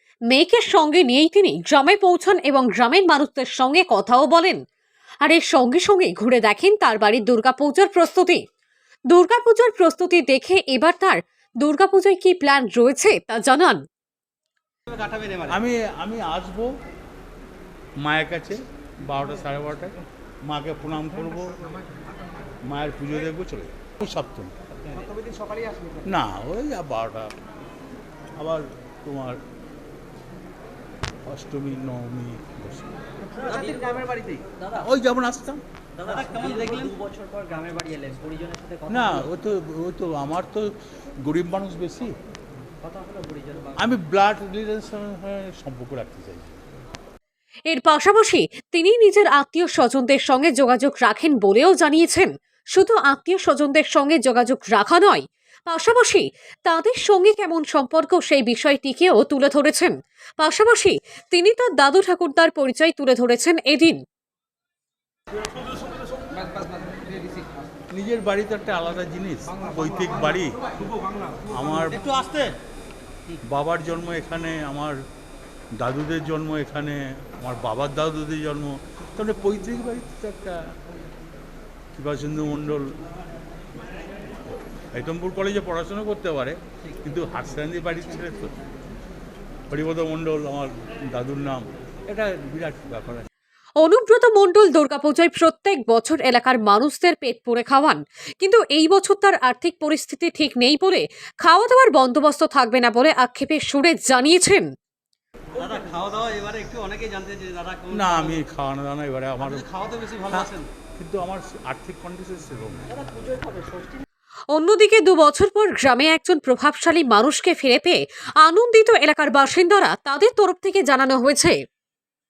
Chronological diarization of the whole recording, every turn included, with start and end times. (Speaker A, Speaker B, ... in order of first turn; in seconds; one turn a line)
Speaker A: 0.3-4.6
Speaker A: 5.2-8.4
Speaker A: 9.1-13.8
Speaker B: 14.9-15.6
Speaker C: 15.5-16.7
Speaker C: 18.0-21.5
Speaker C: 22.6-24.5
Speaker C: 26.0-27.3
Speaker C: 28.4-29.4
Speaker C: 31.2-33.0
Speaker B: 33.4-34.8
Speaker C: 34.8-35.6
Speaker B: 36.0-39.2
Speaker C: 38.9-42.2
Speaker B: 42.8-43.9
Speaker C: 43.8-46.6
Speaker A: 47.7-64.0
Speaker C: 67.9-70.6
Speaker C: 71.5-72.2
Speaker B: 72.1-72.5
Speaker C: 73.4-75.0
Speaker C: 75.7-80.7
Speaker C: 81.9-83.0
Speaker C: 84.9-88.5
Speaker C: 89.7-93.3
Speaker A: 93.8-104.7
Speaker B: 105.5-108.3
Speaker C: 107.9-109.7
Speaker B: 109.6-110.7
Speaker C: 110.2-112.9
Speaker B: 112.9-114.0
Speaker A: 114.5-121.6